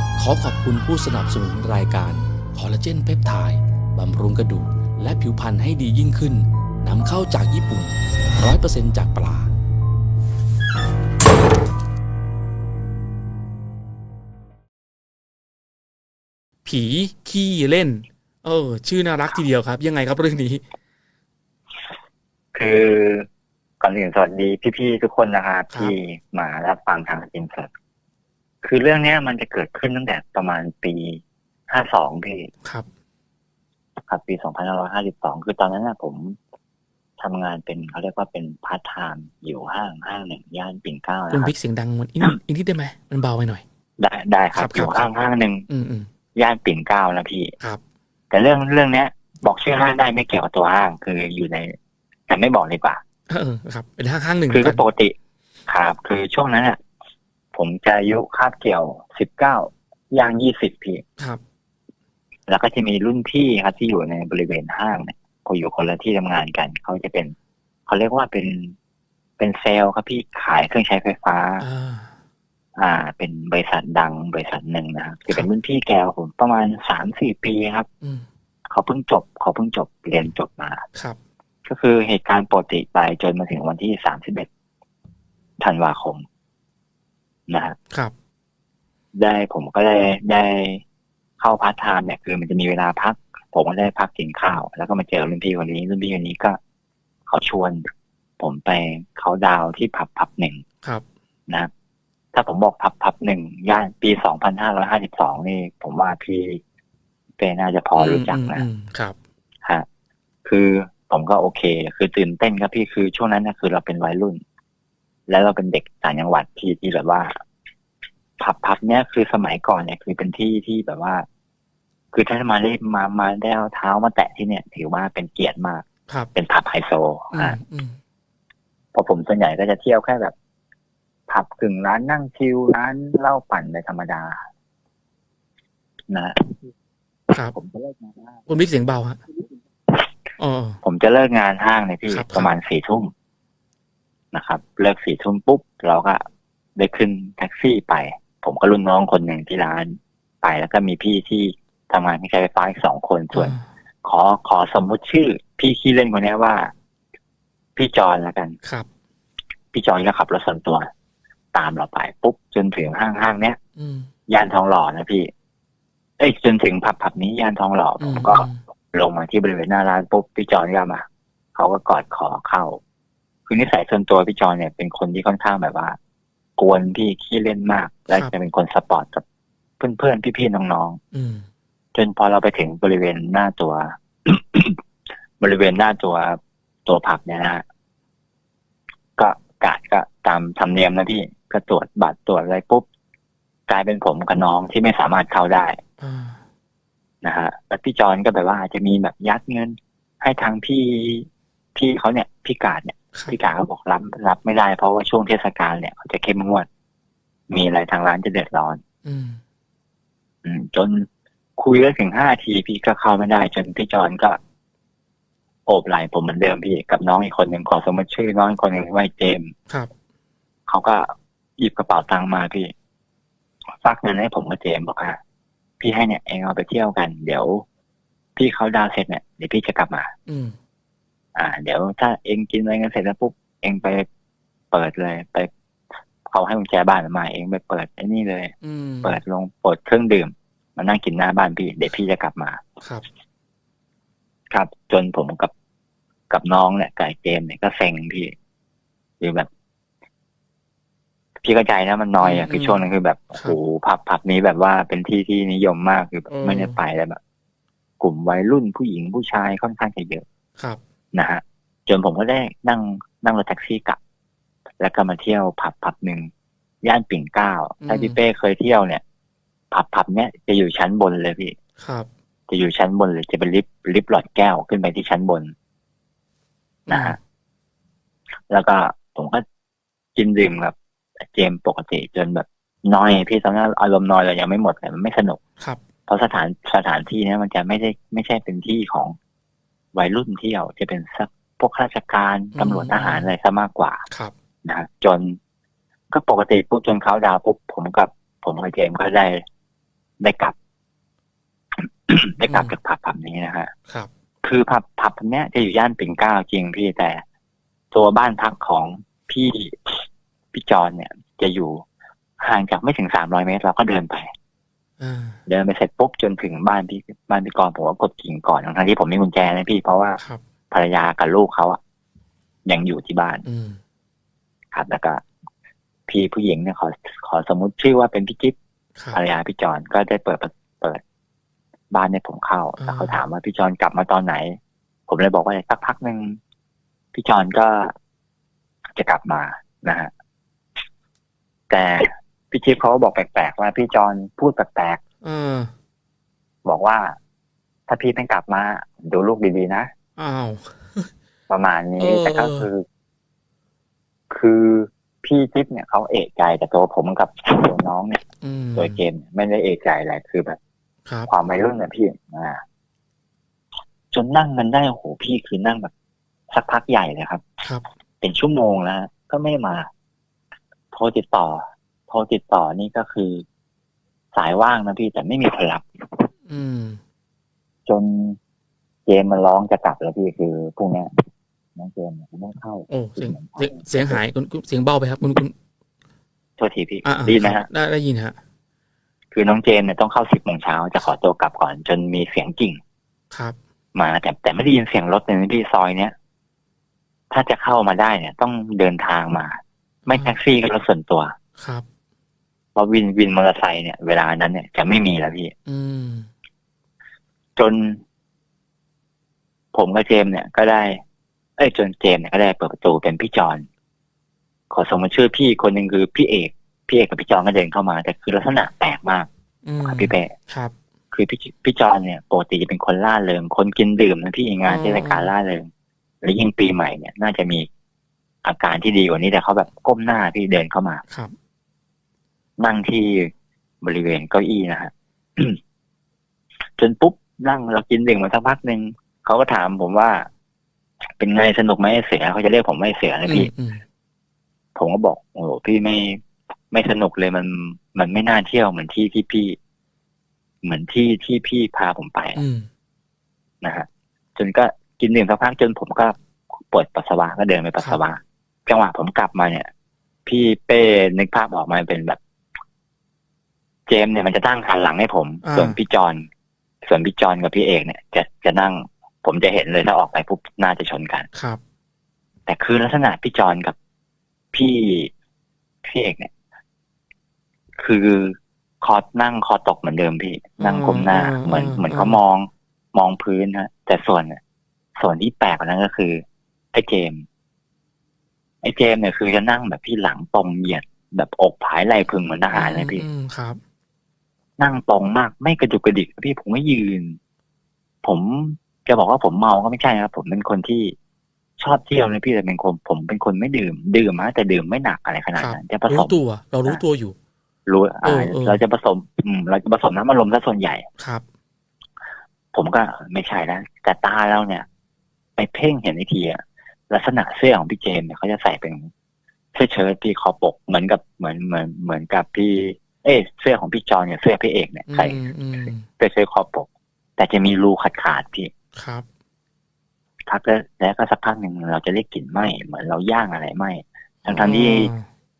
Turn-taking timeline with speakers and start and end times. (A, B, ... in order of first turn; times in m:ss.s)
0:00.2-0:09.5 A
0:16.6-0:20.6 B
0:22.5-0:23.3 C
0:23.8-0:27.7 C
0:28.6-0:32.5 C
0:34.1-0:36.4 C
0:37.2-0:41.5 C
0:41.3-0:43.6 B
0:44.0-0:45.6 C
0:44.5-0:45.1 B
0:45.7-0:46.1 B
0:46.3-0:47.5 C
0:48.3-0:51.8 C
0:52.3-0:53.0 C
0:53.3-0:54.8 B
0:54.5-0:55.1 C
0:55.7-0:56.8 C
0:57.5-1:01.0 C
1:02.5-1:07.3 C
1:07.9-1:08.7 C
1:09.4-1:11.6 C
1:11.6-1:12.1 B
1:12.8-1:17.9 C
1:18.7-1:20.8 C
1:21.6-1:24.5 C
1:25.6-1:26.2 C
1:27.5-1:27.8 C
1:29.2-1:30.8 C
1:31.4-1:36.6 C
1:37.3-1:37.9 C
1:38.4-1:40.6 C
1:42.3-1:46.6 C
1:47.4-1:48.6 C
1:48.0-1:49.1 B
1:50.4-1:54.4 C
1:55.3-1:57.3 C
1:58.4-2:01.2 C
2:02.1-2:07.6 C
2:07.3-2:08.0 B
2:08.9-2:10.3 C
2:11.3-2:14.4 C
2:16.1-2:16.6 C
2:17.5-2:18.4 C
2:18.5-2:19.2 B
2:20.4-2:20.8 B
2:20.8-2:23.1 C
2:22.1-2:22.5 B
2:24.3-2:26.2 C
2:26.8-2:36.7 C
2:33.3-2:33.6 B
2:37.8-2:38.6 C
2:39.7-2:40.9 C
2:41.5-2:43.6 C
2:43.8-2:44.1 B
2:44.3-2:45.3 C
2:46.2-2:52.8 C
2:48.0-2:48.6 B
2:53.5-2:56.0 C
2:56.6-2:59.2 C
2:59.8-3:01.0 C
3:01.1-3:01.4 B
3:01.9-3:04.8 C
3:05.4-3:07.6 C
3:09.2-3:12.8 C
3:13.7-3:15.8 C
3:16.0-3:16.4 B
3:17.2-3:26.7 C
3:27.5-3:28.8 C
3:29.0-3:29.4 B
3:30.4-3:34.4 C
3:35.7-3:39.5 C
3:40.7-3:42.7 C
3:43.8-3:45.2 C
3:45.8-3:47.6 C
3:48.4-3:50.1 C
3:50.3-3:50.6 B
3:51.3-3:54.1 C
3:54.7-3:55.5 C
3:56.2-4:02.6 C
3:58.6-3:59.2 B
4:04.5-4:05.5 C
4:06.3-4:08.3 C
4:09.2-4:09.5 C
4:11.4-4:17.2 C
4:12.2-4:12.8 B
4:16.3-4:16.8 B
4:18.0-4:20.2 C
4:21.1-4:24.0 C
4:24.8-4:26.3 C
4:26.8-4:29.0 C
4:27.8-4:28.2 B
4:29.7-4:31.6 C
4:31.8-4:32.1 B
4:32.5-4:35.5 C
4:36.9-4:37.2 B
4:36.9-4:37.2 C
4:38.5-4:39.4 C
4:40.2-4:40.7 C
4:41.3-4:45.4 C
4:46.1-4:49.2 C
4:49.9-4:54.0 C
4:52.5-4:53.3 B
4:54.6-4:55.4 C
4:56.1-4:59.4 C
5:00.2-5:00.5 C
5:01.8-5:03.7 C
5:04.4-5:07.2 C
5:07.9-5:11.8 C
5:12.4-5:14.3 C
5:15.0-5:15.4 B
5:15.5-5:20.2 C
5:20.7-5:21.8 C
5:22.6-5:23.4 C
5:23.4-5:23.8 B
5:24.7-5:25.2 C
5:26.1-5:28.6 C
5:29.1-5:31.0 C
5:31.9-5:36.4 C
5:32.8-5:33.2 B
5:37.1-5:37.9 C
5:39.0-5:40.1 C
5:41.7-5:45.0 C
5:45.2-5:45.7 B
5:46.6-5:47.2 C
5:47.9-5:49.9 C
5:50.2-5:51.1 B
5:51.5-5:52.8 C
5:52.0-5:52.7 B
5:54.3-5:58.2 C
5:58.4-5:59.0 B
5:58.8-6:00.6 C
6:01.3-6:02.6 C
6:04.1-6:05.9 C
6:06.5-6:07.4 C
6:08.2-6:09.9 C
6:10.9-6:13.4 C
6:14.3-6:16.3 C
6:16.5-6:17.0 B
6:17.9-6:18.4 C
6:19.1-6:21.1 C
6:21.8-6:24.2 C
6:22.9-6:25.5 B
6:26.6-6:27.7 C
6:27.0-6:28.4 B
6:29.3-6:32.8 C
6:33.9-6:36.1 C
6:37.3-6:41.4 C
6:40.1-6:40.3 B
6:41.6-6:41.8 B
6:42.8-6:45.5 C
6:45.7-6:46.3 B
6:47.6-6:48.0 C
6:49.7-6:51.0 C
6:51.6-6:53.7 C
6:54.7-6:59.3 C
6:59.6-7:00.7 B
6:59.8-7:00.3 C
7:01.1-7:05.7 C
7:04.7-7:05.3 B
7:06.2-7:07.7 C
7:08.4-7:11.0 C
7:11.1-7:11.3 B
7:12.6-7:15.6 C
7:16.8-7:20.3 C
7:21.2-7:23.5 C
7:23.3-7:23.8 B
7:24.8-7:29.6 C
7:30.6-7:32.4 C
7:32.4-7:32.6 B
7:33.6-7:36.2 C
7:36.7-7:39.7 C
7:40.2-7:42.2 C
7:43.9-7:46.3 C
7:45.4-7:45.8 B
7:46.8-7:51.3 C
7:51.3-7:51.6 B
7:52.5-7:53.8 C
7:54.5-7:55.1 C
7:55.8-7:56.3 C
7:57.8-8:04.4 C
8:00.6-8:02.2 B
8:05.0-8:07.2 C
8:08.6-8:13.0 C
8:12.5-8:13.6 B
8:14.6-8:17.2 C
8:18.0-8:20.9 C
8:21.6-8:26.8 C
8:25.3-8:27.1 B
8:27.7-8:30.8 C
8:28.0-8:28.6 B
8:32.5-8:34.6 C
8:35.4-8:38.9 C
8:39.5-8:48.5 C
8:44.9-8:45.8 B
8:48.8-8:49.0 B
8:50.3-8:54.9 C
8:54.2-8:55.0 B